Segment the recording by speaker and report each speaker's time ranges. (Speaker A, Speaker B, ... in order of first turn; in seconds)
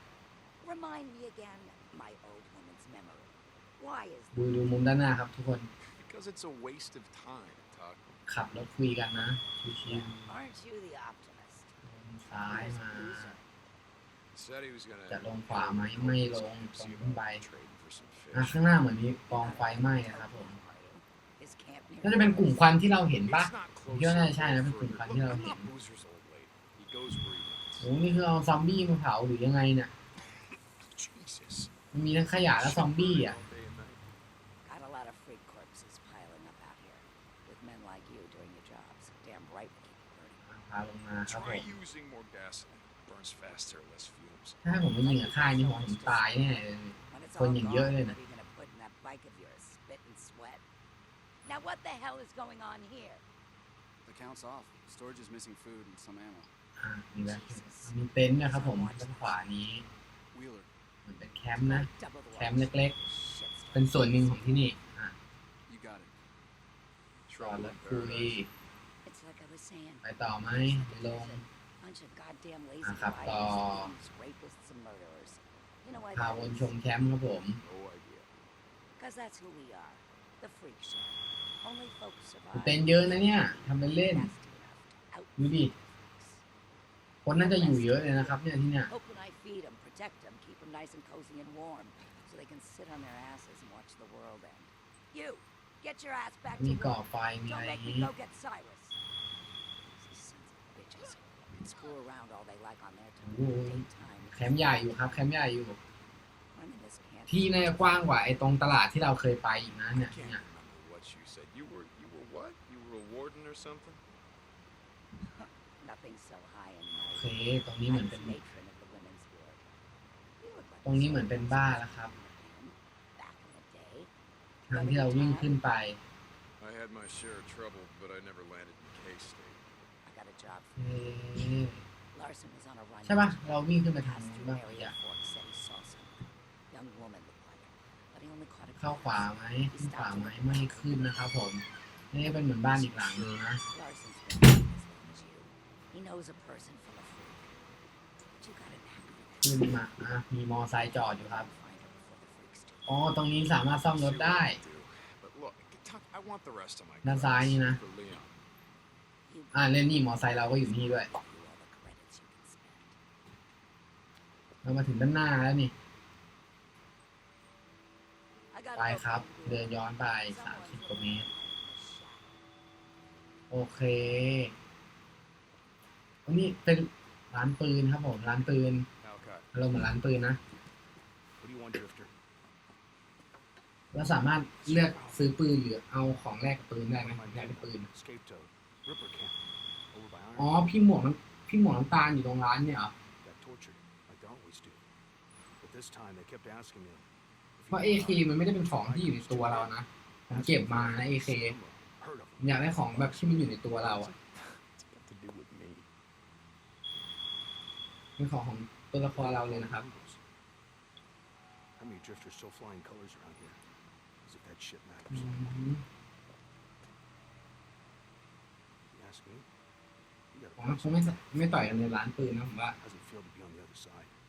Speaker A: 0.6-4.8, 9.9-11.7, 12.5-13.4, 19.3-22.8, 34.6-40.4, 44.9-50.6, 51.5-53.2, 57.2-59.5, 61.5-64.8, 69.0-77.1, 79.0-86.4, 87.3-99.0, 99.8-105.1, 106.5-108.4, 115.3-119.6, 120.4-124.1, 124.7-125.6, 130.1-130.9, 132.1-141.5, 143.6-147.6, 148.4-149.8, 150.7-153.0, 159.3-163.0, 168.5-172.3
Speaker B: 4.3-5.7, 8.3-10.3, 11.9-13.3, 15.1-17.4, 18.3-20.6, 22.0-25.7, 27.8-29.9, 31.9-33.4, 40.5-41.7, 44.6-48.2, 56.8-59.9, 61.1-63.0, 63.7-65.2, 67.4-68.5, 70.0-71.5, 72.8-73.9, 76.1-77.6, 82.5-84.3, 85.4-85.7, 87.2-88.9, 96.6-98.1, 103.2-105.8, 107.3-110.4, 117.1-118.4, 120.8-122.1, 124.7-126.0, 130.8-131.8, 133.0-134.9, 138.8-143.6, 149.4-151.5, 152.9-154.6, 157.0-157.8, 159.5-161.1, 164.6-165.7, 168.8-171.3, 173.5-174.5, 176.3-178.9, 179.5-180.4, 183.9-187.9, 190.4-192.9, 197.7-201.6, 202.4-204.1, 208.2-209.8, 215.1-215.8, 220.6-222.8
Speaker C: 5.9-8.1, 14.3-18.7, 23.3-28.0, 30.8-31.7, 32.4-34.0, 41.2-44.6, 67.3-68.5, 77.6-78.3, 109.9-114.0, 126.6-129.8, 142.9-143.4, 153.9-158.3, 179.0-179.5, 184.7-185.2, 203.8-205.9
Speaker D: 54.0-56.5, 60.3-60.7, 65.7-66.1
Speaker E: 181.4-182.1, 184.7-185.3, 186.9-190.8, 193.2-194.8, 195.6-204.1, 209.1-210.2, 211.8-213.6, 214.2-215.7, 218.9-219.5, 220.3-221.8, 222.8-224.1